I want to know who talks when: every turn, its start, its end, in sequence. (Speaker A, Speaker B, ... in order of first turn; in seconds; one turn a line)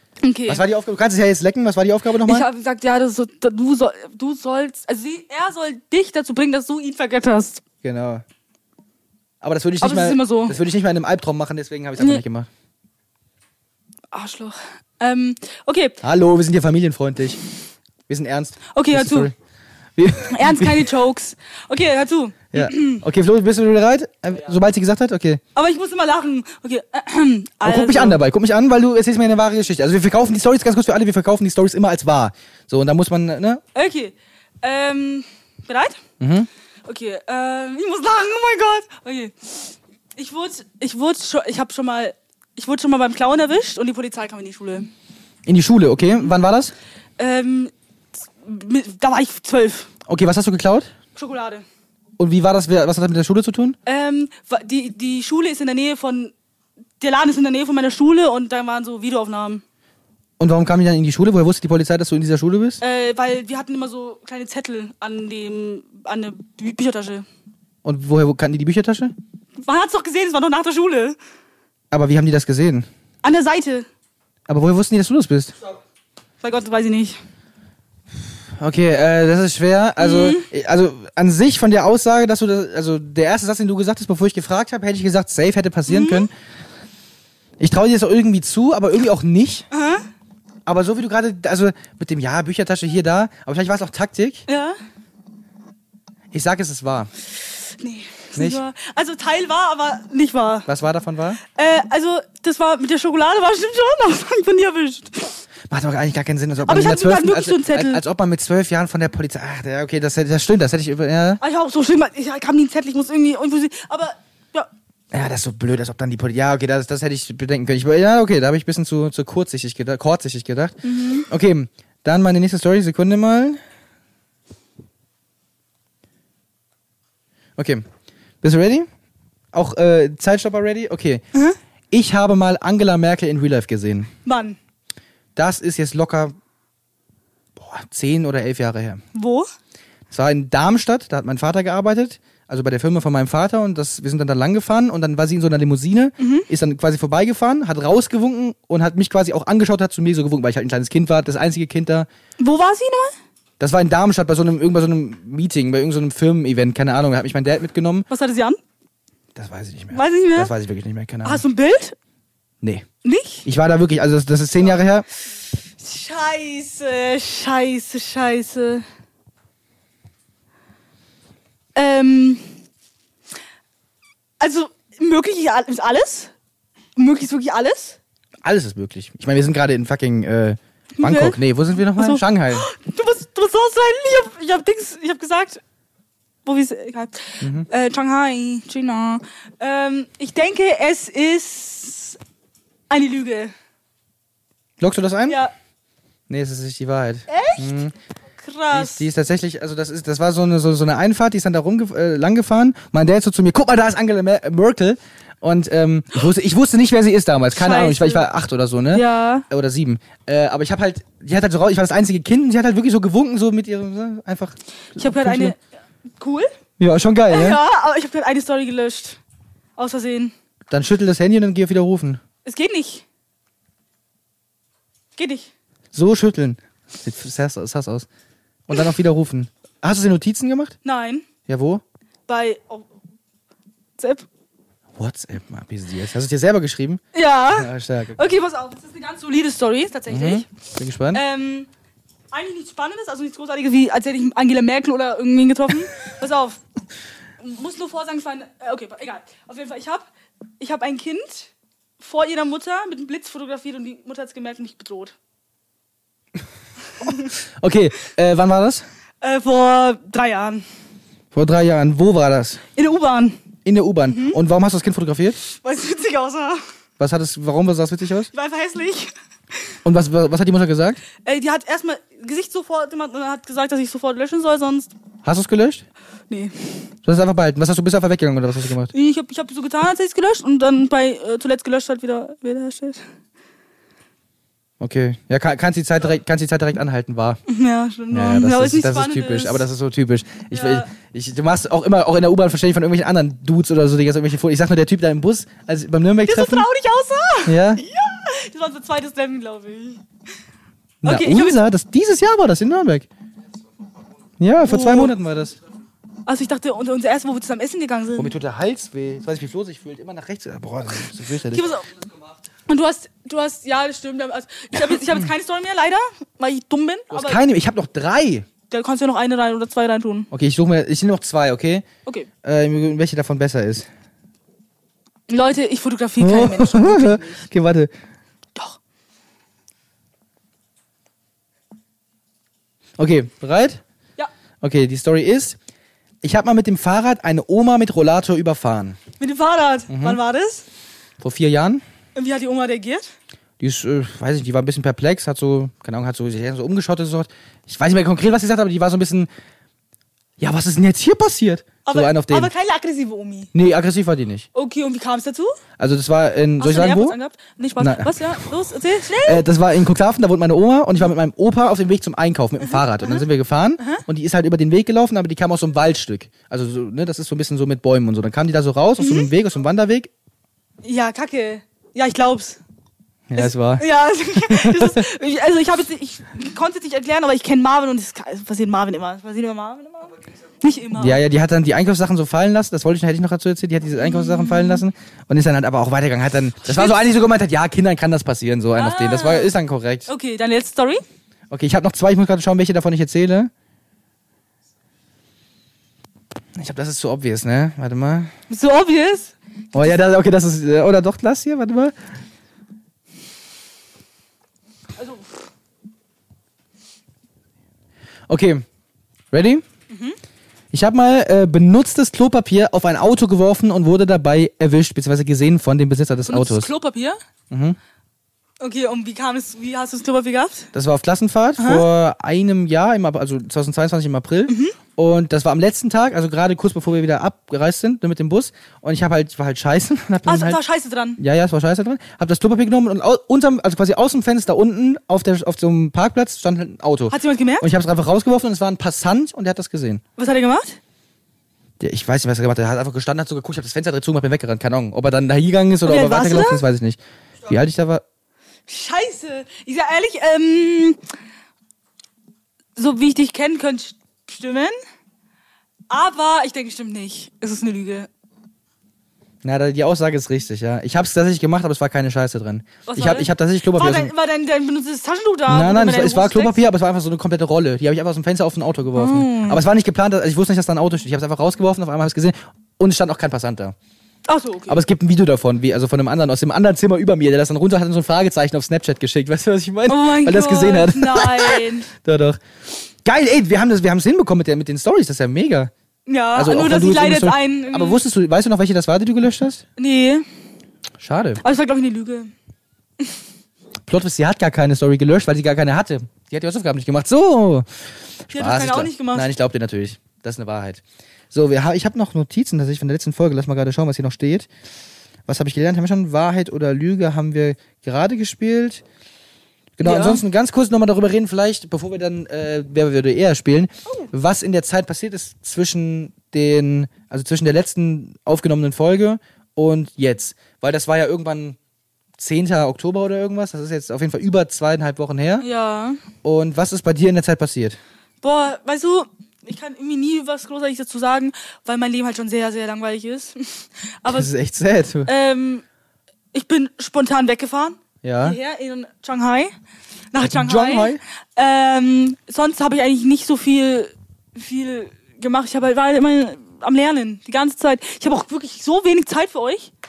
Speaker A: 0.2-0.6
Speaker B: 0.5-2.5
Speaker A: 2.2-7.6
Speaker B: 7.8-8.2
Speaker B: 9.4-12.5
Speaker A: 9.8-10.6
Speaker A: 12.0-12.2
Speaker A: 14.1-16.0
Speaker B: 16.0-17.4
Speaker B: 18.1-19.3
Speaker A: 18.7-19.3
Speaker B: 20.0-20.9
Speaker A: 20.2-23.0
Speaker B: 22.5-25.4
Speaker A: 25.5-28.2
Speaker B: 27.6-33.6
Speaker A: 33.7-36.0
Speaker B: 36.2-36.5
Speaker A: 36.9-44.9
Speaker B: 45.5-46.7
Speaker A: 47.2-47.7
Speaker A: 48.4-49.9
Speaker B: 50.0-50.9
Speaker A: 51.1-51.6
Speaker B: 52.2-53.8
Speaker A: 53.9-56.3
Speaker A: 57.0-59.6
Speaker B: 60.4-62.8
Speaker A: 62.8-67.2
Speaker B: 67.8-69.1
Speaker A: 69.6-71.2
Speaker B: 71.9-72.9
Speaker A: 73.2-73.9
Speaker B: 74.5-75.5
Speaker A: 76.4-77.2
Speaker B: 78.5-86.3
Speaker A: 80.0-80.5
Speaker A: 85.9-86.3
Speaker B: 87.6-89.7
Speaker A: 89.7-90.0
Speaker B: 90.7-94.4
Speaker A: 94.5-94.8
Speaker B: 96.3-97.1
Speaker A: 97.8-100.7
Speaker B: 98.3-98.6
Speaker B: 100.7-101.4
Speaker A: 101.5-105.4
Speaker B: 105.7-111.4
Speaker A: 106.7-108.0
Speaker A: 111.4-114.7
Speaker B: 115.1-123.6
Speaker A: 120.8-121.2
Speaker B: 127.6-127.8
Speaker B: 128.4-128.9
Speaker B: 129.5-131.2
Speaker B: 131.9-134.1
Speaker A: 134.2-134.6
Speaker B: 135.3-136.3
Speaker B: 137.6-139.0
Speaker A: 139.1-139.5
Speaker B: 140.1-152.1
Speaker A: 146.2-146.5
Speaker A: 152.4-153.1
Speaker B: 153.6-158.1
Speaker A: 158.1-158.6
Speaker B: 159.3-161.4
Speaker A: 159.9-160.5
Speaker A: 161.2-161.9
Speaker A: 163.0-163.4
Speaker B: 163.4-165.1
Speaker A: 165.8-168.8
Speaker A: 171.7-172.4
Speaker A: 174.4-176.3
Speaker A: 176.9-178.0
Speaker B: 178.4-182.7
Speaker A: 181.0-185.6
Speaker A: 186.4-192.2
Speaker B: 187.4-187.7
Speaker A: 192.9-193.5
Speaker B: 194.8-195.4
Speaker A: 195.3-195.5
Speaker B: 196.3-197.9
Speaker A: 197.3-197.7
Speaker A: 198.4-199.1
Speaker B: 198.7-215.5
Speaker A: 207.5-208.3
Speaker A: 208.9-209.4
Speaker A: 214.9-215.6
Speaker A: 216.2-216.5
Speaker B: 216.8-217.6
Speaker A: 217.3-219.2
Speaker A: 219.8-220.3
Speaker B: 220.7-222.2
Speaker A: 222.4-223.0
Speaker A: 225.2-225.5
Speaker B: 225.9-228.1
Speaker B: 228.7-230.8
Speaker A: 230.8-231.2
Speaker B: 231.5-231.8
Speaker A: 232.3-232.9
Speaker A: 234.0-234.2
Speaker B: 234.9-238.2
Speaker A: 237.1-240.5
Speaker B: 240.1-241.2
Speaker A: 241.1-241.7
Speaker A: 242.3-246.6
Speaker A: 247.4-250.1
Speaker A: 250.6-255.1
Speaker B: 257.0-258.8
Speaker A: 259.2-260.6
Speaker B: 261.3-262.6
Speaker A: 262.7-263.4
Speaker B: 263.6-265.4
Speaker A: 264.1-264.4
Speaker A: 265.4-266.6
Speaker B: 267.0-268.3
Speaker A: 268.3-269.1
Speaker B: 269.8-271.0
Speaker A: 271.2-274.9
Speaker B: 275.2-275.8
Speaker A: 276.3-276.8
Speaker B: 277.0-278.9
Speaker A: 278.9-283.0
Speaker B: 284.8-287.4
Speaker A: 287.5-289.6
Speaker B: 288.1-296.7
Speaker A: 290.5-290.9
Speaker A: 296.2-300.0
Speaker B: 297.4-297.8
Speaker B: 301.0-303.1
Speaker A: 301.0-301.7
Speaker B: 304.4-305.6
Speaker A: 304.6-305.1
Speaker A: 306.2-308.3
Speaker B: 308.1-311.6
Speaker A: 311.5-311.9
Speaker A: 312.7-317.4
Speaker B: 317.1-318.5
Speaker A: 318.7-320.3
Speaker B: 320.3-321.9
Speaker B: 322.4-323.9
Speaker A: 325.3-327.5
Speaker B: 326.2-327.9
Speaker B: 333.0-333.8
Speaker B: 334.6-335.6
Speaker B: 336.2-339.0
Speaker A: 339.2-340.6
Speaker B: 339.9-340.2
Speaker B: 341.2-341.8
Speaker A: 342.1-343.1
Speaker B: 343.6-349.3
Speaker B: 350.4-352.5
Speaker A: 351.8-353.5
Speaker B: 353.5-354.5
Speaker A: 354.5-355.6
Speaker B: 355.8-357.2
Speaker A: 356.6-359.4
Speaker B: 357.8-358.1
Speaker B: 359.2-370.1
Speaker A: 369.0-369.3
Speaker A: 370.8-372.6
Speaker B: 373.3-375.0
Speaker A: 373.4-381.2
Speaker B: 380.9-390.1
Speaker A: 384.0-384.8
Speaker A: 386.7-387.0
Speaker A: 388.7-389.5
Speaker A: 390.1-391.0
Speaker B: 391.5-393.5
Speaker B: 396.5-398.3
Speaker A: 398.5-399.9
Speaker B: 399.7-401.9
Speaker A: 405.0-405.4
Speaker B: 408.3-408.6
Speaker B: 409.3-409.6
Speaker A: 409.9-410.2
Speaker B: 410.7-416.7
Speaker A: 416.3-417.2
Speaker B: 417.5-417.8
Speaker A: 418.6-420.7
Speaker B: 420.7-430.6
Speaker A: 421.6-421.9
Speaker A: 424.5-424.8
Speaker A: 430.2-431.2
Speaker B: 431.2-440.0
Speaker A: 437.1-437.7
Speaker A: 440.2-440.8
Speaker B: 441.8-448.0
Speaker A: 445.8-446.6
Speaker A: 448.7-451.0
Speaker A: 452.8-454.7
Speaker A: 455.9-458.1
Speaker B: 459.4-464.1
Speaker A: 462.9-466.6
Speaker B: 465.5-473.7
Speaker A: 468.9-469.6
Speaker A: 474.3-474.8
Speaker B: 474.7-482.4
Speaker A: 479.9-481.9
Speaker B: 483.0-485.7
Speaker A: 486.1-488.0
Speaker B: 486.3-489.6
Speaker A: 489.8-490.2
Speaker B: 491.0-491.4
Speaker A: 491.4-492.3
Speaker B: 493.9-497.7
Speaker B: 498.3-504.5
Speaker A: 498.3-499.3
Speaker B: 505.3-508.8
Speaker B: 509.8-521.6
Speaker A: 509.8-510.2
Speaker B: 522.2-525.5
Speaker A: 525.4-526.0
Speaker B: 526.2-527.8
Speaker A: 528.2-534.3
Speaker B: 534.0-535.1
Speaker A: 535.1-535.6
Speaker A: 536.3-539.5
Speaker B: 538.0-538.4
Speaker A: 540.1-549.7
Speaker B: 540.2-541.0